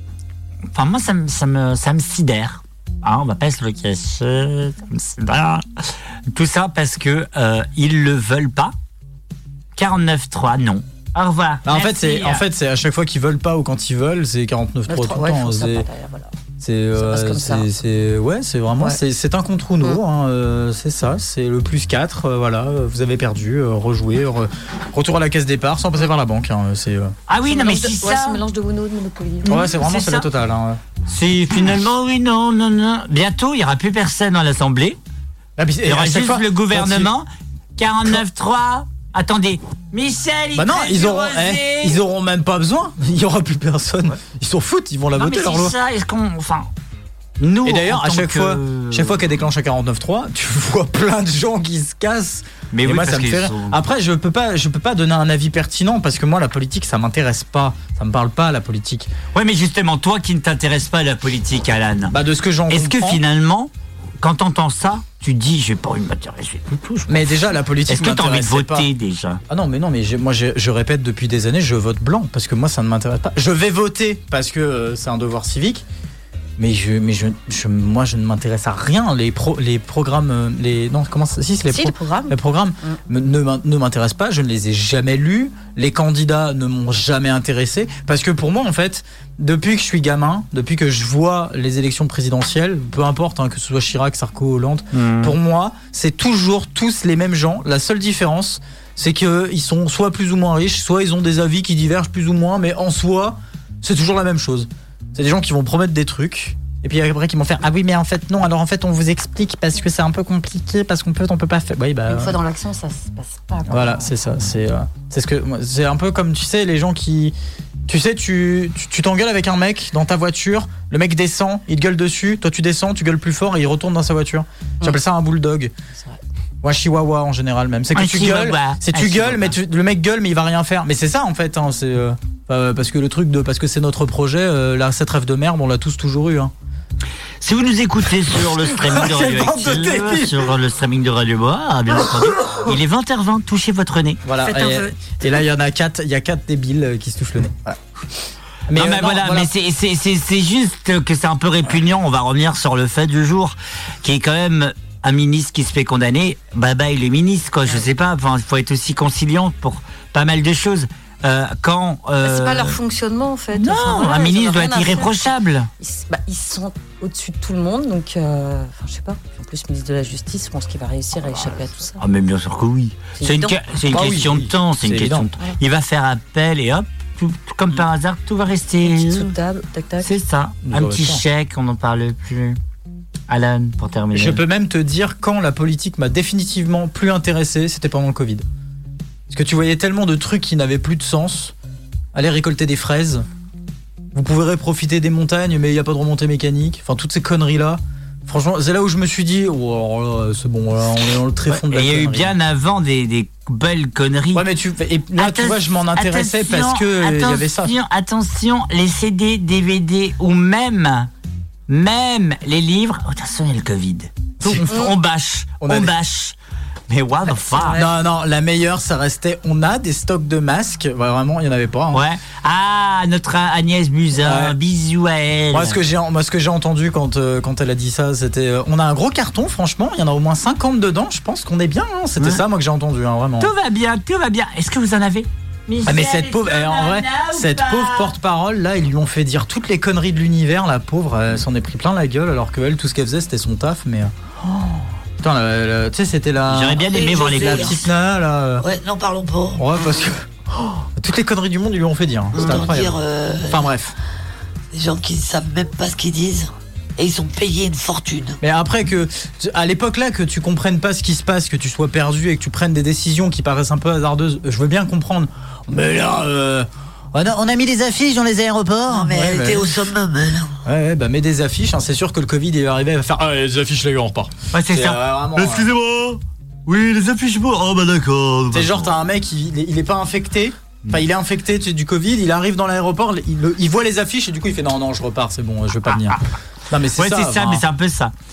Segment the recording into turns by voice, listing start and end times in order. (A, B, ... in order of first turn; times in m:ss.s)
0:00.7-0:05.6 A
0:06.3-0:08.7 A
0:09.8-0:12.4 A
0:11.6-0:15.9 B
0:14.9-0:16.3 C
0:16.6-0:27.1 B
0:17.0-0:17.7 C
0:27.3-0:28.4 A
0:27.4-0:29.6 C
0:29.4-0:30.3 A
0:29.4-0:30.8 B
0:31.1-0:35.0 A
0:35.6-0:37.1 B
0:35.8-0:42.0 A
0:40.5-0:45.7 B
0:45.2-0:46.7 A
0:47.4-0:49.3 A
0:47.6-0:59.1 B
0:52.7-0:53.8 A
0:59.3-1:02.2 A
1:02.1-1:03.2 B
1:02.7-1:09.4 A
1:07.1-1:08.9 B
1:09.5-1:15.8 B
1:16.6-1:52.4 B
1:21.7-1:23.0 C
1:34.9-1:35.3 A
1:52.1-1:54.0 C
1:53.7-1:57.4 B
1:57.9-2:05.7 B
2:06.6-2:16.5 B
2:07.9-2:09.5 A
2:17.4-2:24.6 A
2:18.6-2:20.5 B
2:24.2-2:27.8 B
2:24.6-2:24.8 C
2:28.7-2:29.5 B
2:28.7-2:42.8 A
2:42.2-2:45.2 C
2:43.5-2:45.7 A
2:45.8-2:52.0 C
2:52.0-2:59.3 A
2:53.2-2:53.6 C
2:53.9-2:55.3 B
2:58.8-3:00.1 C
3:00.0-3:02.6 A
3:00.6-3:01.2 B
3:03.3-3:04.4 A
3:04.1-3:08.4 B
3:09.3-3:11.5 B
3:12.1-3:13.2 B
3:14.1-3:22.3 B
3:21.5-3:24.4 A
3:24.3-3:27.7 B
3:25.2-3:31.1 A
3:31.7-3:36.4 A
3:34.4-3:34.8 B
3:35.6-3:35.9 B
3:36.9-3:37.8 A
3:37.3-3:37.9 C
3:37.7-3:42.0 B
3:41.9-3:45.8 A
3:44.2-3:44.6 B
3:45.5-3:53.5 B
3:53.4-3:58.1 A
3:55.8-4:04.1 B
4:05.2-4:08.6 B
4:06.5-4:07.8 A
4:06.8-4:07.8 D
4:08.6-4:09.6 D
4:09.6-4:14.0 B
4:12.3-4:13.7 D
4:14.7-4:18.4 D
4:18.4-4:29.8 B
4:28.9-4:30.5 D
4:30.6-4:35.7 B
4:34.5-4:39.0 A
4:38.5-4:47.6 B
4:46.9-4:48.1 A